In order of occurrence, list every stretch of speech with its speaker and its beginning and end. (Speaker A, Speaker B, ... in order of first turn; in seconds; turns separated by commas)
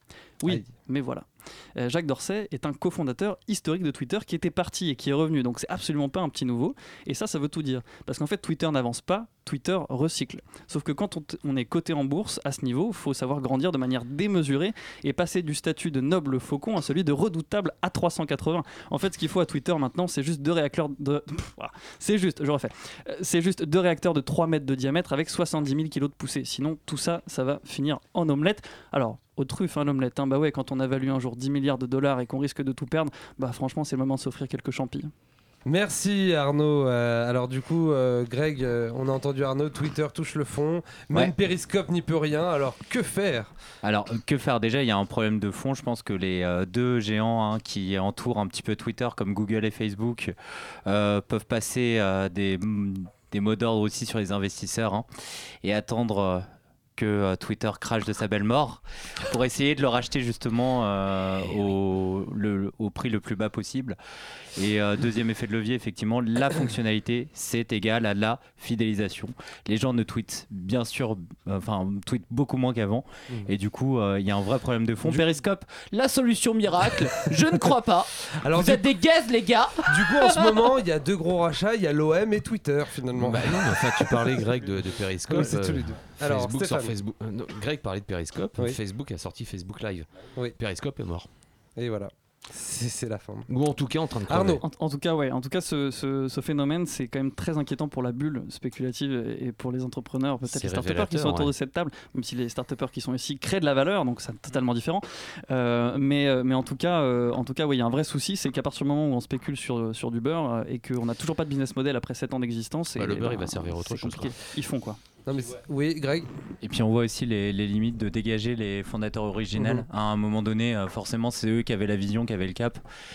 Speaker A: 0.4-35.1, Speaker B: 35.7-43.5, Speaker C: 43.8-50.3, Speaker C: 50.9-55.1, Speaker C: 55.6-64.0, Speaker C: 64.6-80.6, Speaker B: 75.0-75.3, Speaker B: 77.0-77.7, Speaker B: 78.4-78.9, Speaker B: 79.8-84.0, Speaker D: 83.2-91.3, Speaker B: 85.3-86.9, Speaker B: 91.8-93.5, Speaker D: 93.5-94.6, Speaker B: 94.3-94.6, Speaker A: 94.6-115.0, Speaker D: 100.5-101.5, Speaker D: 112.9-114.4, Speaker B: 115.2-116.3, Speaker C: 116.6-122.8, Speaker B: 119.6-119.8